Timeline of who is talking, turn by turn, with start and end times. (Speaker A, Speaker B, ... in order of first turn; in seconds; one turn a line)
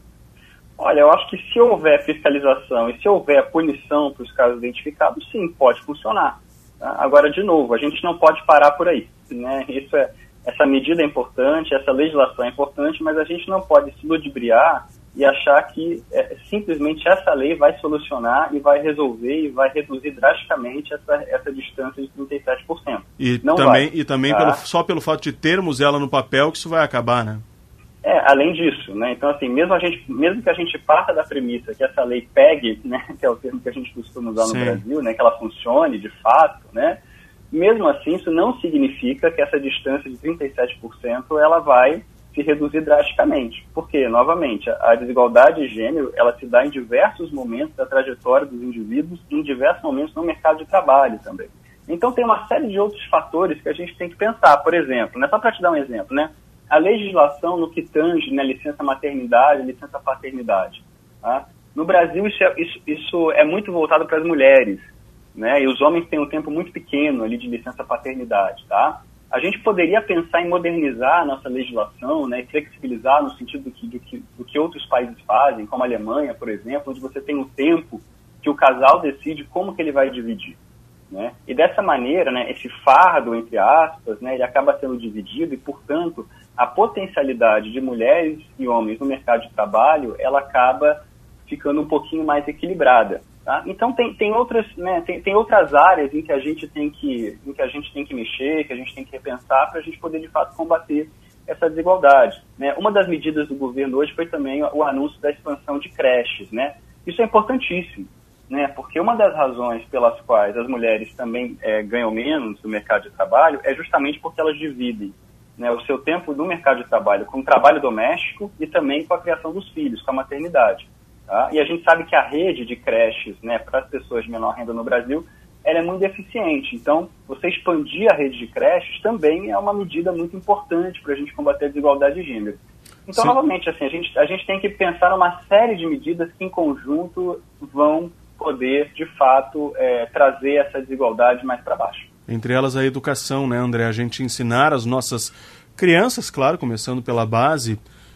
Speaker A: 0.8-24.6
Speaker B: 23.2-27.4
Speaker A: 28.0-37.0
Speaker B: 34.4-34.8
Speaker A: 37.5-80.6
Speaker A: 81.1-142.1
Speaker B: 142.3-147.8